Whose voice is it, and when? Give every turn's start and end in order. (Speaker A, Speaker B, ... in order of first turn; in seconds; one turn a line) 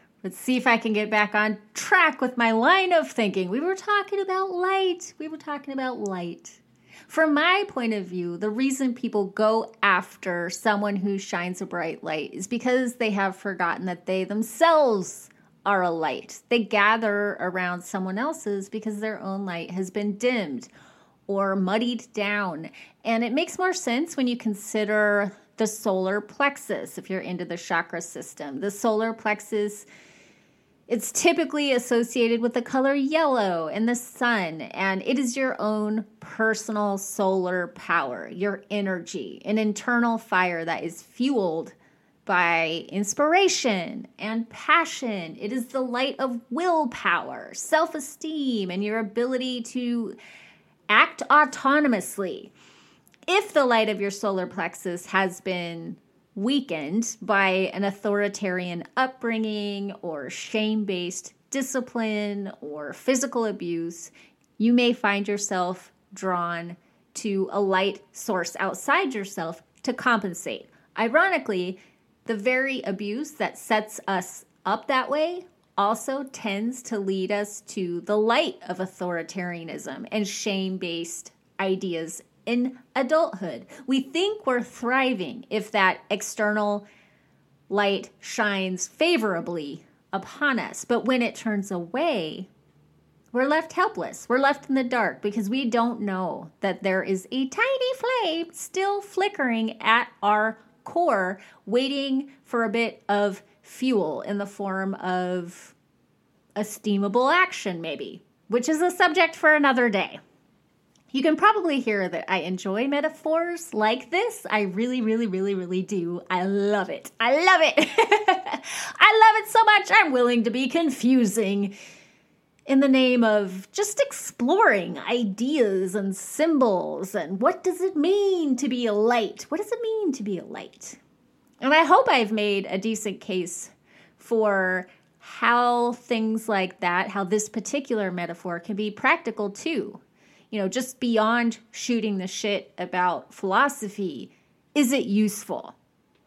Speaker A: 0.2-20.7
Speaker A: 21.3-29.9
Speaker A: 30.9-41.7
Speaker A: 42.2-50.2
Speaker A: 50.9-52.5
Speaker A: 53.3-86.8
Speaker A: 87.7-92.5
Speaker A: 93.3-105.7
Speaker A: 106.5-110.2
Speaker A: 111.1-121.7
Speaker A: 122.7-131.0
Speaker A: 131.6-140.0
Speaker A: 140.5-145.7